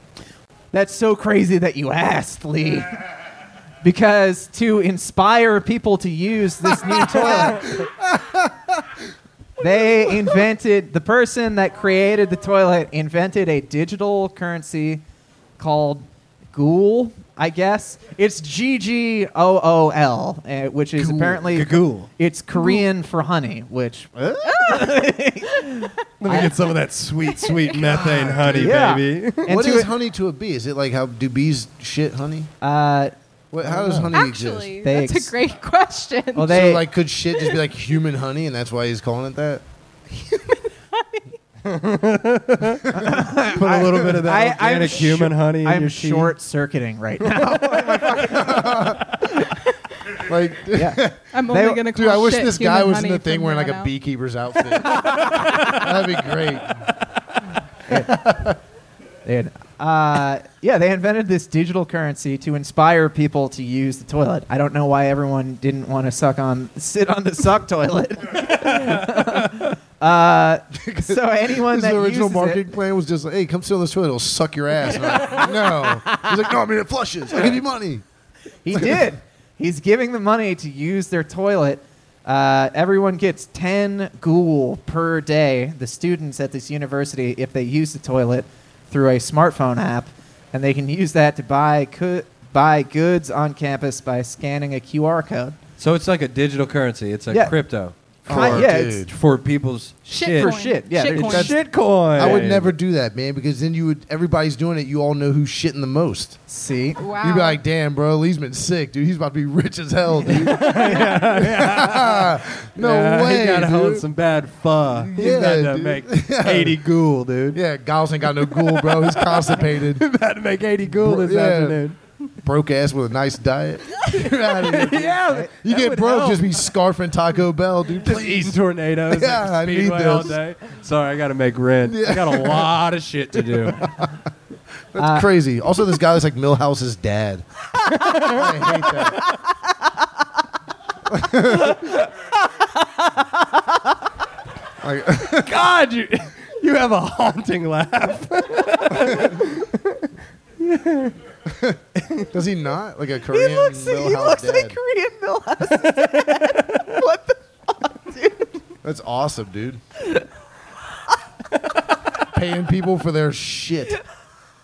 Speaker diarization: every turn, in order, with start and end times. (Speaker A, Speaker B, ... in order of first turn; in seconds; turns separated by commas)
Speaker A: 0.7-3.0, Speaker A: 3.8-7.8, Speaker B: 6.9-8.8, Speaker A: 9.6-15.0, Speaker A: 15.6-26.6, Speaker B: 21.0-21.5, Speaker C: 21.5-22.1, Speaker D: 22.6-22.8, Speaker D: 24.6-25.0, Speaker C: 26.2-29.6, Speaker D: 27.3-28.1, Speaker B: 27.8-28.7, Speaker A: 28.4-29.9, Speaker B: 29.5-32.5, Speaker A: 32.6-33.1, Speaker B: 33.5-34.8, Speaker C: 33.7-34.1, Speaker D: 34.1-36.6, Speaker A: 34.8-35.3, Speaker A: 36.4-36.9, Speaker B: 36.4-39.6, Speaker D: 40.1-41.4, Speaker C: 41.6-46.3, Speaker A: 42.9-49.0, Speaker B: 48.1-49.1, Speaker B: 50.2-51.3, Speaker A: 50.7-51.9, Speaker D: 51.3-53.9, Speaker B: 51.9-56.9, Speaker A: 55.1-55.8, Speaker A: 57.9-58.4, Speaker B: 58.1-58.5, Speaker A: 59.2-72.7, Speaker C: 68.7-69.2, Speaker B: 70.8-78.0, Speaker A: 74.9-76.3, Speaker A: 78.6-95.6, Speaker B: 78.7-79.1, Speaker C: 95.8-100.6, Speaker A: 97.3-97.6, Speaker A: 98.3-99.1, Speaker B: 98.3-99.1, Speaker A: 100.1-102.4, Speaker D: 100.1-101.5, Speaker C: 101.1-102.7, Speaker B: 101.3-101.6, Speaker B: 102.2-106.4, Speaker A: 106.5-107.0, Speaker D: 107.0-107.6, Speaker B: 107.2-114.0, Speaker A: 110.3-111.0, Speaker C: 110.3-117.6, Speaker B: 115.1-116.8, Speaker B: 117.5-120.0, Speaker C: 118.4-122.0, Speaker B: 120.9-121.8, Speaker B: 122.4-130.4, Speaker C: 124.6-126.6, Speaker A: 125.0-125.5, Speaker C: 128.0-133.9, Speaker B: 131.8-132.7, Speaker B: 133.8-134.2, Speaker B: 134.9-137.4, Speaker A: 135.0-135.3, Speaker C: 137.9-138.5, Speaker B: 138.1-139.3, Speaker A: 139.3-139.9, Speaker B: 141.1-141.9, Speaker A: 141.6-144.0, Speaker B: 144.8-145.5, Speaker C: 145.2-151.2, Speaker B: 151.5-154.8, Speaker C: 152.0-152.3, Speaker A: 153.3-158.5, Speaker C: 155.8-156.9, Speaker B: 158.8-159.8, Speaker B: 162.3-164.0